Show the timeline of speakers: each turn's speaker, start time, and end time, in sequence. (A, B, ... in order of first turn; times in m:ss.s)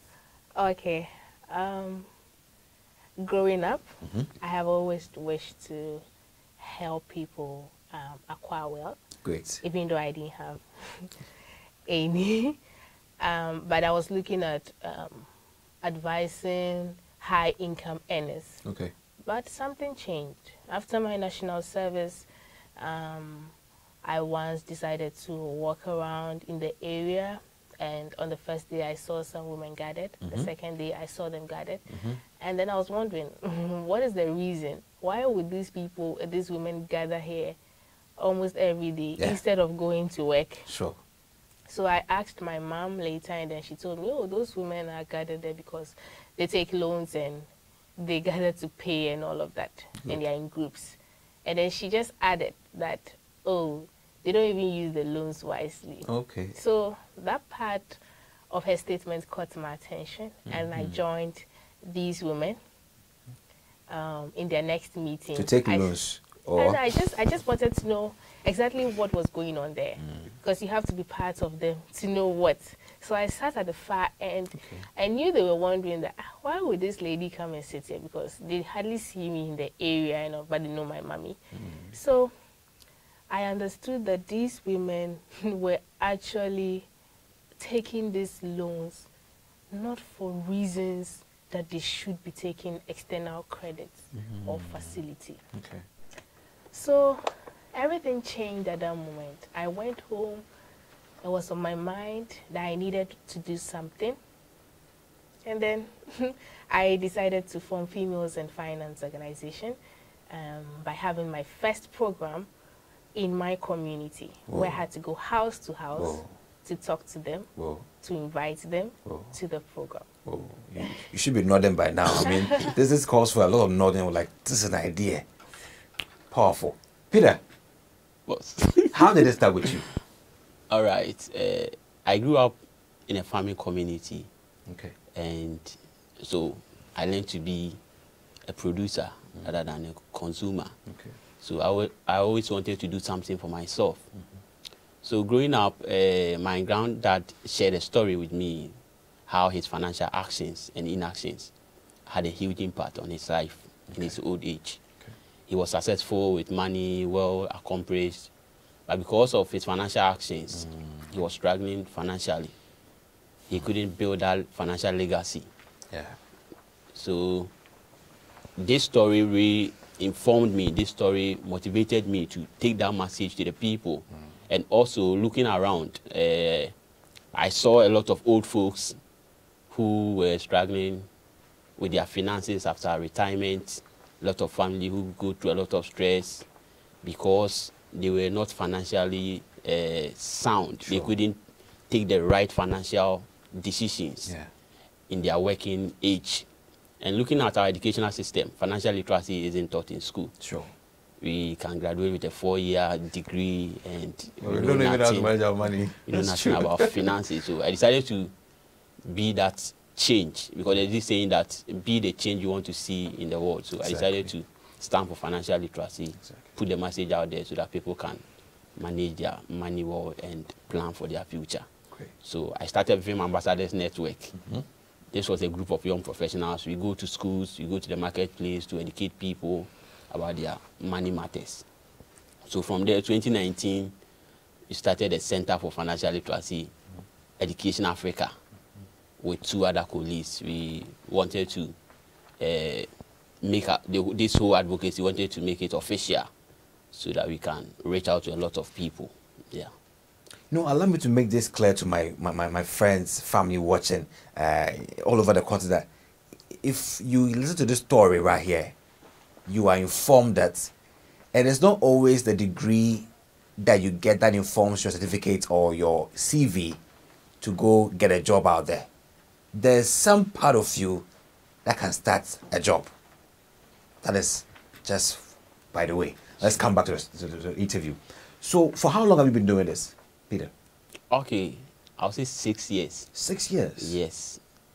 0:00.6-0:02.1 A
0:03.2-0:06.0 A
0:06.6-0:09.0 A
0:09.2-0:09.6 B
0:09.6-0:11.1 A
0:11.9-0:12.6 A
0:13.2-0:15.3 A
0:15.8-0:18.6 A
0:18.6-0:18.9 B
0:19.2-0:31.9 A
0:30.2-0:30.5 B
0:31.9-0:32.2 B
0:32.4-0:37.6 A
0:38.2-0:40.7 A
0:40.7-0:41.0 B
0:41.7-0:58.0 A
0:56.0-0:56.6 B
0:58.5-1:02.6 A
1:00.5-1:01.0 B
1:03.9-1:06.0 A
1:05.4-1:06.8 B
1:06.6-1:21.4 A
1:14.6-1:14.8 B
1:21.5-1:22.0 B
1:21.9-1:22.3 A
1:23.3-1:26.9 A
1:27.6-1:29.1 A
1:29.7-1:35.4 A
1:34.1-1:35.0 B
1:35.5-1:35.8 B
1:36.7-1:40.5 A
1:41.2-1:44.2 A
1:45.4-1:49.8 A
1:50.3-1:52.5 A
1:53.2-2:00.1 A
1:54.5-1:54.8 B
1:56.0-1:56.3 B
1:57.6-1:57.8 B
2:00.3-2:05.2 B
2:06.3-2:07.4 B
2:08.3-2:09.7 C
2:08.9-2:09.9 B
2:10.7-2:12.6 C
2:13.1-2:14.3 C
2:14.7-2:14.9 B
2:15.2-2:17.8 C
2:18.5-2:20.7 C
2:20.9-2:21.1 B
2:21.4-2:24.0 C
2:25.0-2:28.8 C
2:29.3-2:31.5 C
2:32.1-2:34.8 C
2:33.9-2:34.2 B
2:35.5-2:38.3 C
2:38.9-2:42.5 C
2:43.5-2:45.5 C
2:45.9-2:46.2 B
2:46.9-2:47.5 C
2:48.6-2:56.7 C
2:57.3-2:59.0 C
2:59.7-3:01.1 C
3:01.8-3:06.5 C
3:07.0-3:11.4 C
3:10.8-3:11.1 B
3:11.9-3:14.3 C
3:15.1-3:16.5 C
3:17.0-3:20.3 C
3:20.4-3:20.7 B
3:21.2-3:25.3 C
3:24.4-3:27.0 B
3:26.1-3:28.3 C
3:29.0-3:38.2 C
3:33.8-3:34.3 B
3:38.8-3:41.7 C
3:42.2-3:44.4 C
3:44.4-3:44.6 B
3:45.1-3:51.6 C
3:52.4-3:53.9 C
3:54.7-3:56.7 C
3:57.4-3:58.3 C
3:59.2-4:01.8 C
4:02.4-4:02.9 C
4:03.4-4:06.3 C
4:06.9-4:09.7 C
4:10.5-4:15.9 B
4:16.5-4:18.7 B
4:19.5-4:20.7 B
4:21.3-4:23.1 B
4:23.6-4:26.8 B
4:27.4-4:28.9 B
4:29.5-4:31.1 B
4:31.6-4:32.9 B
4:34.0-4:40.5 B
4:41.1-4:43.1 C
4:43.2-4:44.0 B
4:43.8-4:44.4 C